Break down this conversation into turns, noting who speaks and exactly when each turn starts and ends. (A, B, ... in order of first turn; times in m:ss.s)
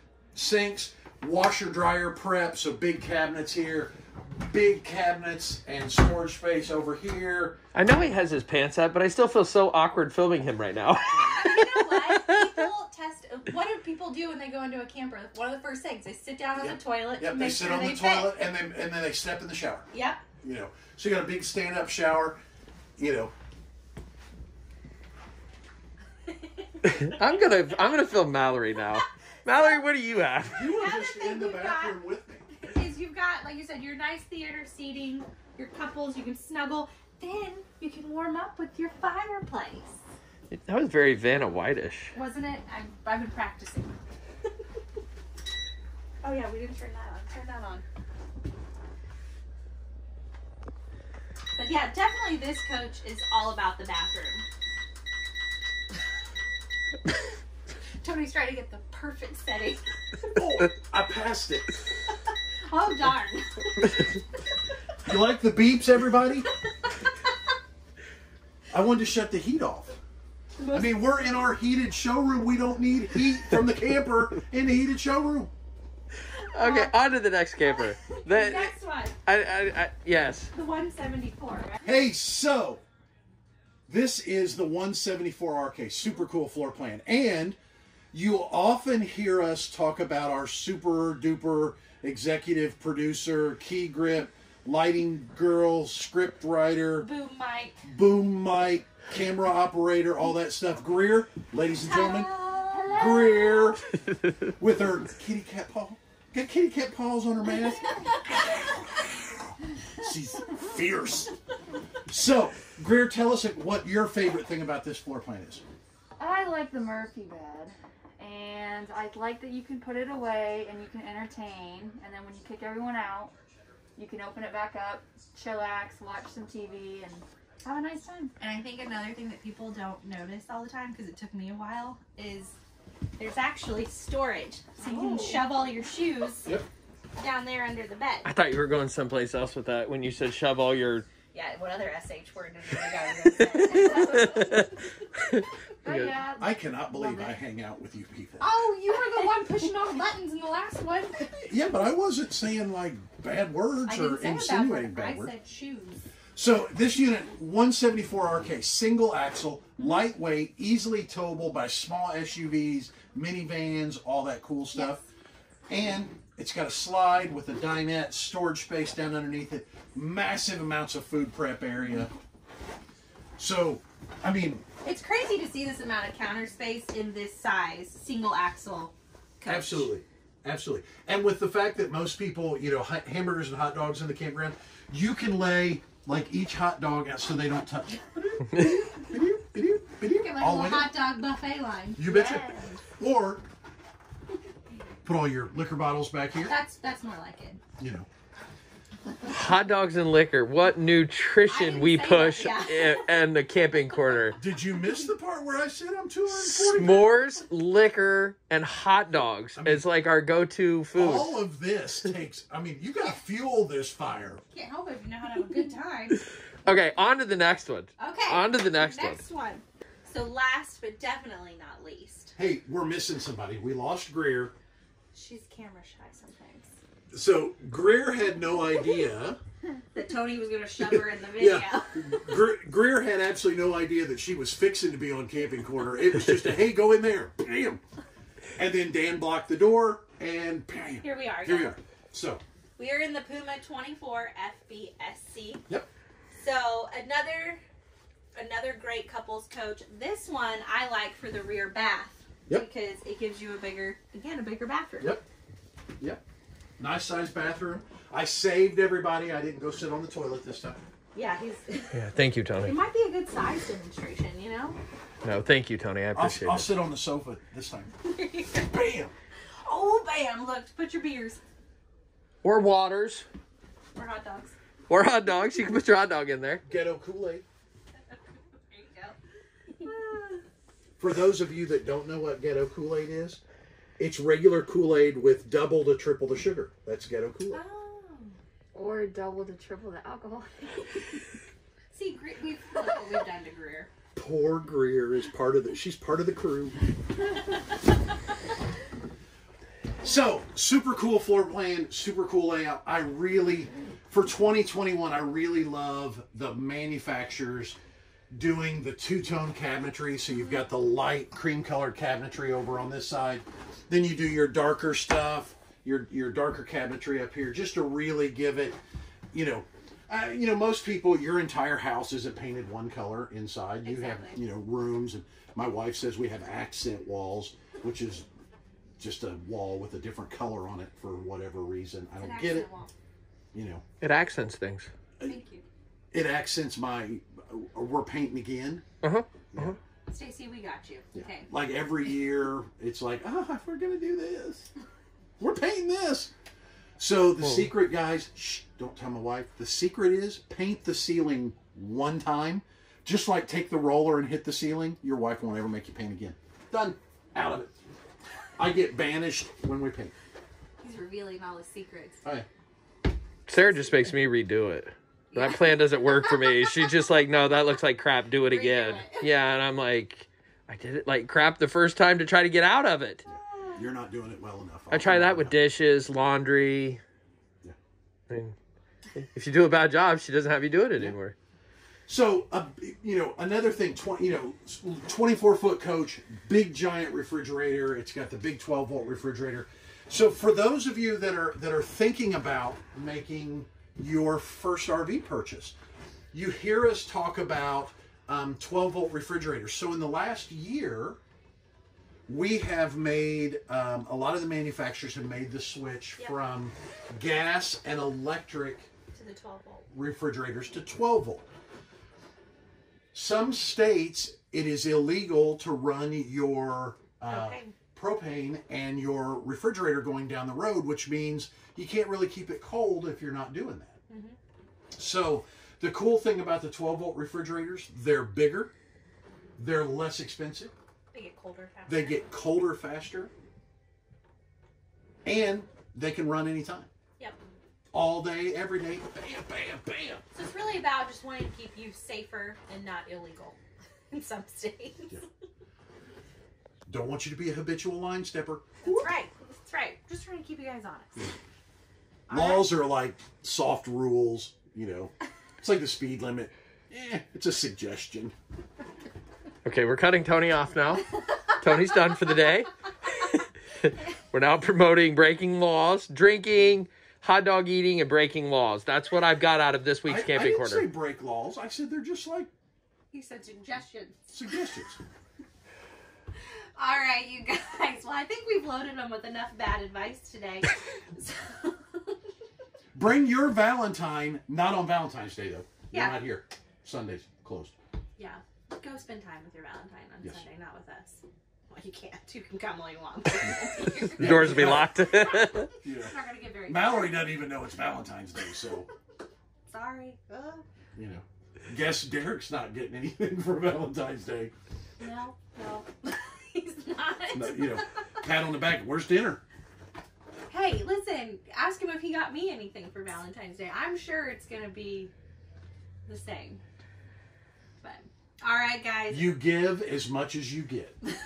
0:00.3-0:07.6 A
0:07.8-0:12.5 B
0:10.9-0:18.4 C
0:16.6-0:19.9 A
0:19.9-0:20.2 C
0:20.4-0:22.4 A
0:23.0-0:23.3 A
0:26.3-0:27.4 C
0:26.8-0:30.7 B
0:30.5-0:32.6 A
0:30.6-0:32.0 C
0:32.6-0:40.0 C
0:40.5-0:42.1 B
0:42.1-0:44.0 C
0:46.2-0:47.8 C
0:51.6-0:54.5 C
0:58.0-1:00.4 C
1:00.4-1:01.7 A
1:02.7-1:04.1 C
1:05.0-1:06.5 A
1:08.7-1:10.0 A
1:10.6-1:11.0 C
1:10.7-1:15.5 A
1:16.3-1:17.0 C
1:16.5-1:18.7 B
1:17.7-1:19.2 C
1:19.3-1:20.5 B
1:20.5-1:21.8 C
1:21.8-1:22.8 A
1:23.9-1:27.6 A
1:28.1-1:37.1 A
1:37.0-1:37.8 C
1:37.8-1:42.4 A
1:41.8-1:43.3 C
1:42.7-1:43.7 D
1:42.9-1:43.9 A
1:44.5-1:48.0 A
1:49.9-1:51.3 A
1:52.1-1:55.6 A
1:56.2-2:03.3 D
2:04.0-2:08.3 D
2:08.4-2:12.6 C
2:13.2-2:16.5 C
2:14.8-2:15.5 A
2:15.0-2:15.4 D
2:17.2-2:18.3 C
2:18.2-2:21.1 B
2:21.3-2:24.7 C
2:23.8-2:26.2 B
2:25.8-2:27.2 D
2:26.4-2:28.5 A
2:28.4-2:31.5 C
2:31.4-2:35.3 A
2:33.9-2:36.0 C
2:36.4-2:45.0 A
2:44.8-2:45.0 C
2:45.7-2:52.1 A
2:53.4-2:54.6 A
2:54.8-2:59.9 C
2:59.5-3:10.9 A
3:08.5-3:08.8 B
3:10.1-3:12.8 C
3:12.0-3:12.5 A
3:12.1-3:12.4 D
3:13.0-3:13.4 A
3:15.0-3:16.5 A
3:16.4-3:17.6 C
3:17.8-3:18.1 A
3:19.3-3:24.4 B
3:21.5-3:23.0 C
3:24.4-3:27.1 A
3:26.3-3:31.4 B
3:29.6-3:29.8 A
3:31.0-3:34.4 A
3:34.5-3:36.2 C
3:36.6-3:39.2 B
3:38.0-3:42.4 C
3:42.4-3:44.5 A
3:45.1-3:46.8 C
3:47.1-3:49.4 A
3:49.9-3:52.3 C
3:50.8-3:57.8 A
3:58.6-4:02.4 A
4:01.0-4:01.8 C
4:02.8-4:05.6 C
4:06.4-4:07.6 C
4:08.4-4:15.2 C
4:16.8-4:20.8 A
4:21.1-4:22.0 C
4:21.9-4:22.8 B
4:22.6-4:24.8 C
4:25.2-4:26.7 B
4:26.1-4:27.9 A
4:28.0-4:28.7 C
4:28.6-4:29.1 A
4:29.6-4:31.4 C
4:32.4-4:33.3 B
4:34.0-4:34.6 C
4:34.9-4:36.6 B
4:36.7-4:37.4 A
4:38.1-4:39.2 C
4:39.8-4:40.4 C
4:41.0-4:43.4 A
4:44.0-4:47.6 A
4:47.5-4:48.4 C
4:48.8-4:51.2 D
4:51.9-4:53.9 C
4:54.2-4:56.8 A
5:00.0-5:07.8 A
5:08.3-5:18.8 A
5:19.3-5:28.3 A
5:23.8-5:24.4 C
5:29.0-5:32.7 A
5:32.2-5:32.9 C
5:33.5-5:33.8 A
5:34.0-5:34.9 B
5:35.2-5:35.6 C
5:36.1-5:38.8 A
5:39.0-5:39.8 B
5:39.5-5:39.8 A
5:40.1-5:41.5 C
5:41.1-5:44.7 A
5:45.4-5:46.3 A
5:47.0-5:57.8 A
5:47.4-5:47.7 B
5:58.6-6:00.1 A
6:00.8-6:02.2 C
6:03.5-6:13.2 B
6:03.5-6:04.1 C
6:05.3-6:06.7 C
6:08.4-6:09.3 C
6:13.3-6:15.6 A
6:13.3-6:13.9 C
6:14.9-6:17.0 B
6:18.3-6:18.6 B
6:19.2-6:21.3 B
6:22.1-6:35.8 A
6:36.3-6:41.2 A
6:42.3-6:48.9 A
6:49.1-6:49.9 C
6:49.9-6:51.5 A
6:53.1-7:04.0 A
6:57.3-6:57.8 C
7:04.1-7:04.4 C
7:05.0-7:08.7 A
7:09.6-7:10.7 A
7:11.1-7:12.2 C
7:11.9-7:13.3 A
7:15.2-7:16.9 A
7:17.9-7:20.2 A
7:20.3-7:23.6 C
7:24.1-7:25.2 C
7:26.9-7:29.1 A
7:28.8-7:31.3 C
7:32.3-7:32.8 C
7:32.3-7:38.3 A
7:39.6-7:50.9 B
7:50.1-7:52.5 A
7:53.1-7:54.3 C
7:54.3-7:55.0 A
7:56.8-8:02.2 C
8:02.9-8:07.8 A
8:05.9-8:06.2 C
8:08.2-8:17.3 C
8:14.2-8:15.0 A
8:14.2-8:15.7 B
8:15.8-8:16.1 A
8:16.7-8:18.9 A
8:19.7-8:20.7 C
8:21.0-8:24.5 A
8:25.0-8:28.2 C
8:27.3-8:29.4 A
8:30.5-8:35.1 C
8:36.1-8:36.6 C
8:37.8-8:39.4 C
8:39.1-8:41.0 A